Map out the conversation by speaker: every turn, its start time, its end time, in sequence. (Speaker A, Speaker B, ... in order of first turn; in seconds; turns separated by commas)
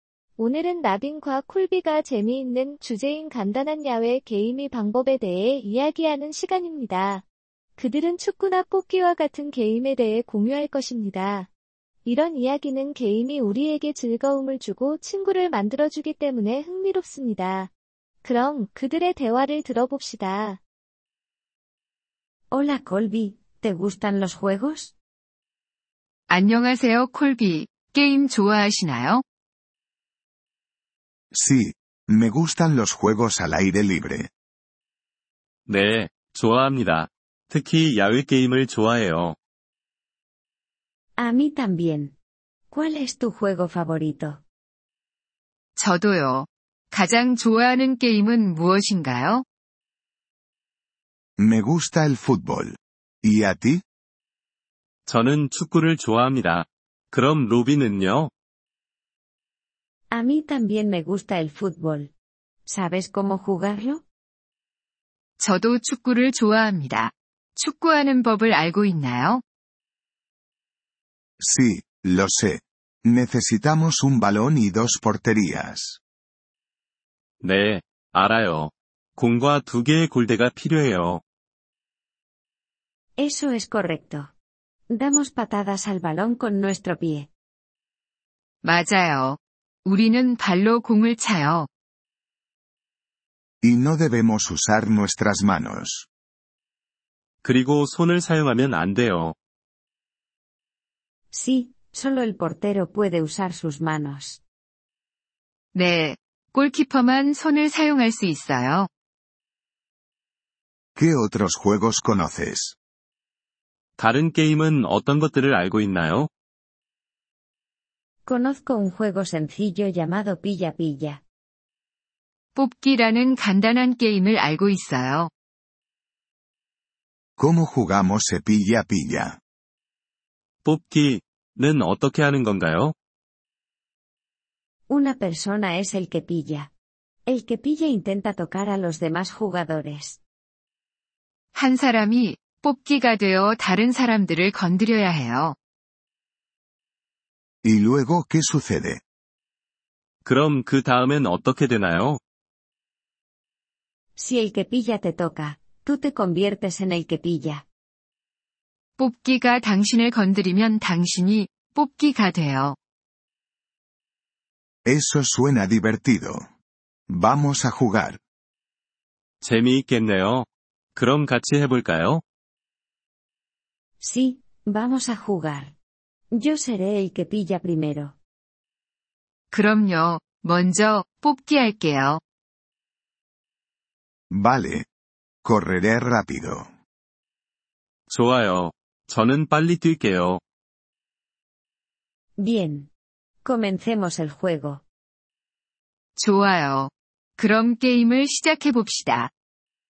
Speaker A: 0.4-7.2, Speaker A: 7.8-11.5, Speaker A: 12.0-17.7, Speaker A: 18.2-20.6, Speaker B: 22.5-24.9, Speaker C: 26.3-29.2, Speaker D: 31.3-34.3, Speaker E: 35.7-39.4, Speaker B: 41.2-42.1, Speaker B: 42.7-44.4, Speaker C: 45.8-49.4, Speaker D: 51.4-53.8, Speaker E: 55.0-58.3, Speaker B: 60.1-62.1, Speaker B: 62.6-64.0, Speaker C: 65.4-69.4, Speaker D: 71.4-76.0, Speaker E: 77.4-81.2, Speaker B: 83.2-84.3, Speaker B: 84.9-87.3, Speaker C: 88.6-91.7, Speaker D: 93.6-96.1, Speaker E: 97.4-99.3, Speaker B: 101.3-104.4, Speaker C: 105.7-108.9, Speaker D: 111.0-112.8, Speaker E: 114.0-116.3, Speaker B: 118.2-121.2, Speaker C: 122.5-125.3, Speaker D: 127.4-129.4, Speaker E: 130.6-132.9, Speaker B: 134.9-136.7, Speaker B: 137.3-140.2, Speaker C: 141.5-145.5, Speaker D: 147.6-149.0, Speaker E: 150.2-152.2, Speaker B: 154.2-157.6, Speaker C: 159.0-162.8, Speaker D: 164.8-166.4, Speaker D: 167.1-168.2, Speaker E: 169.4-172.2, Speaker B: 174.0-175.7, Speaker B: 176.3-178.1, Speaker C: 179.5-182.2, Speaker D: 184.3-184.8, Speaker D: 185.4-186.7, Speaker E: 188.1-190.4, Speaker B: 192.4-192.9, Speaker B: 193.4-194.8, Speaker C: 196.2-199.3